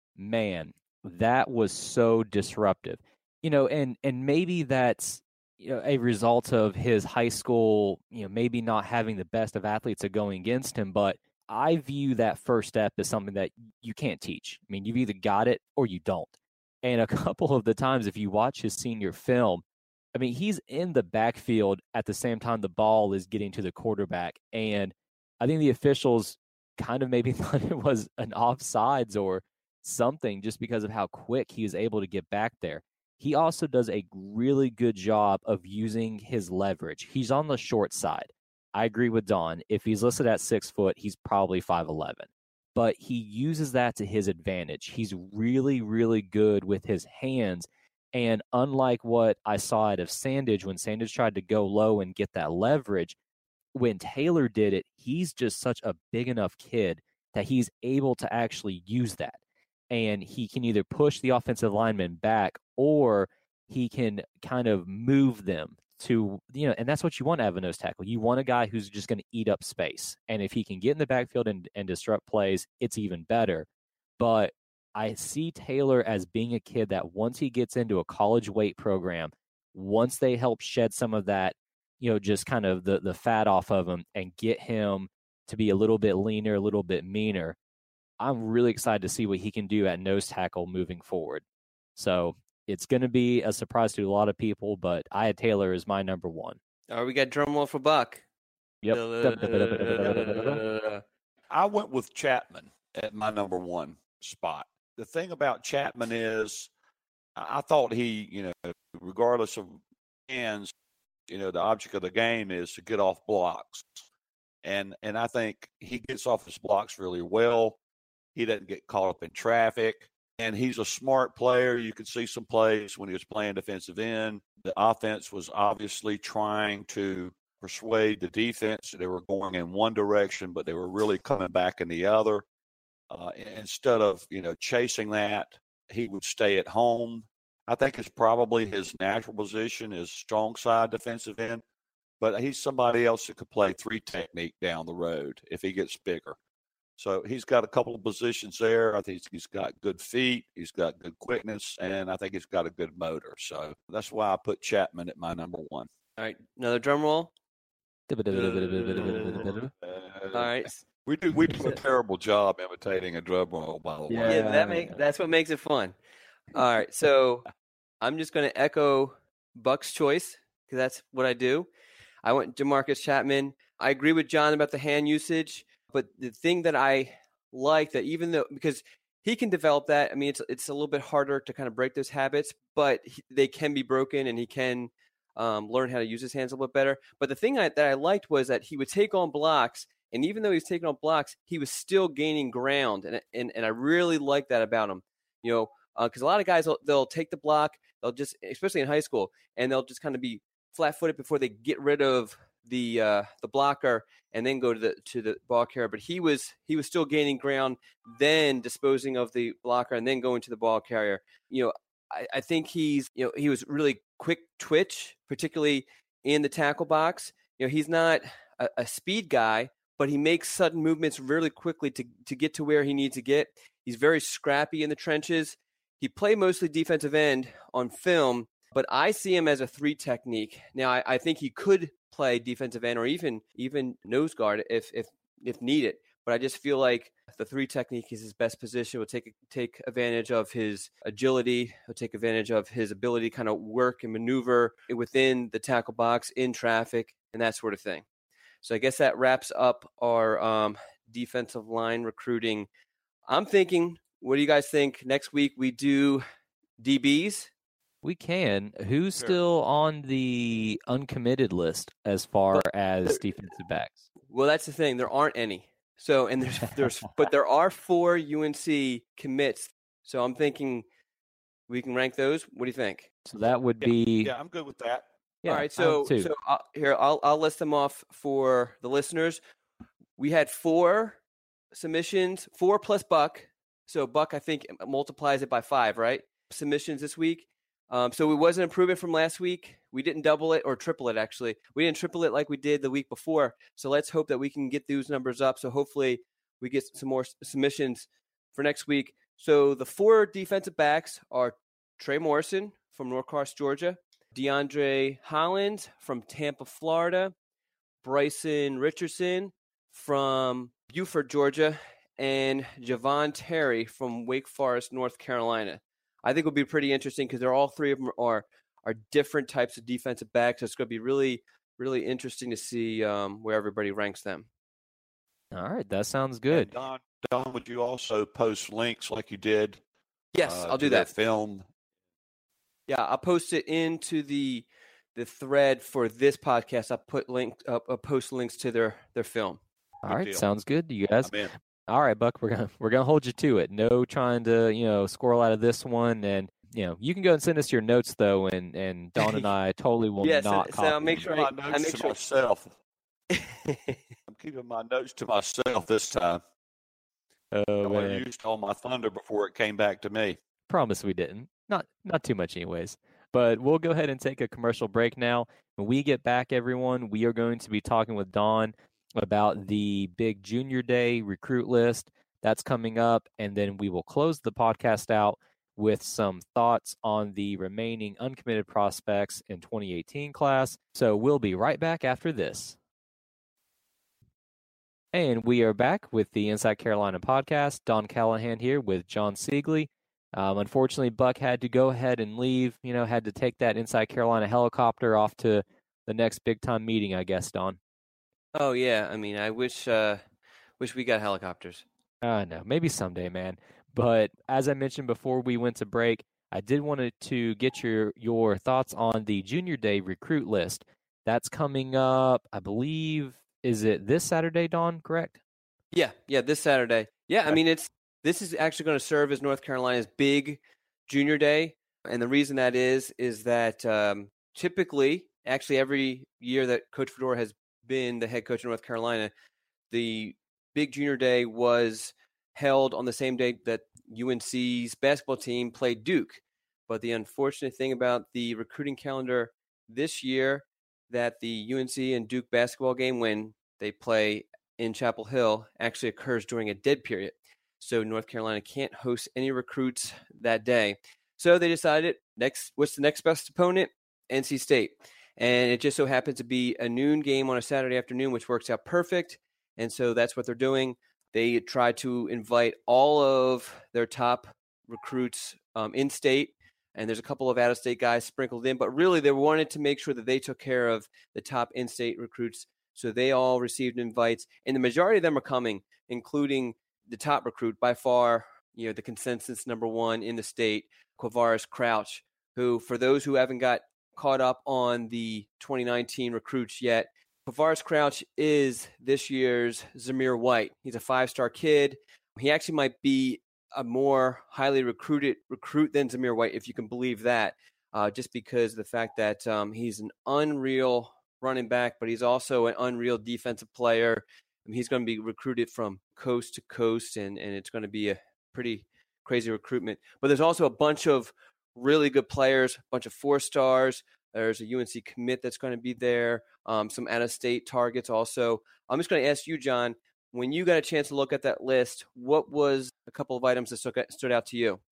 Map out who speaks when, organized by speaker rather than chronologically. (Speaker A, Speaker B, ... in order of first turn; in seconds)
Speaker A: 0.2-53.1, 53.7-59.4, 59.9-73.7, 74.2-87.5, 88.2-91.4, 92.0-96.6, 98.8-100.6, 158.1-159.7, 164.1-165.0, 258.0-264.0, 273.2-274.3, 275.4-276.3, 325.5-326.7, 340.1-341.3, 341.9-351.2, 357.5-358.2, 360.7-382.8, 385.1-397.8, 402.2-415.4
Speaker B: 96.9-98.2, 98.9-101.0, 156.2-157.3, 158.3-159.5, 160.3-160.8, 161.5-161.8, 164.2-165.9, 166.5-167.4, 168.0-171.7, 172.2-248.0, 248.6-252.7, 253.3-256.2, 256.8-257.5, 262.5-263.2, 264.3-270.8, 271.7-273.1, 275.4-279.4, 280.2-281.2, 281.7-307.3, 308.0-324.5, 330.3-331.1, 332.9-339.6, 349.2-349.4, 350.2-352.2, 353.3-353.9, 398.5-400.2, 400.8-401.8, 415.9-429.3, 429.9-524.8
Speaker C: 101.5-106.7, 107.3-110.7, 111.3-114.0, 114.6-117.8, 118.3-132.4, 133.1-141.6, 142.2-146.4, 147.0-155.9, 159.8-164.5, 273.8-275.1, 326.5-329.8, 330.4-331.6, 340.0-340.5, 341.2-341.5, 351.1-352.7, 354.3-356.4, 357.8-360.4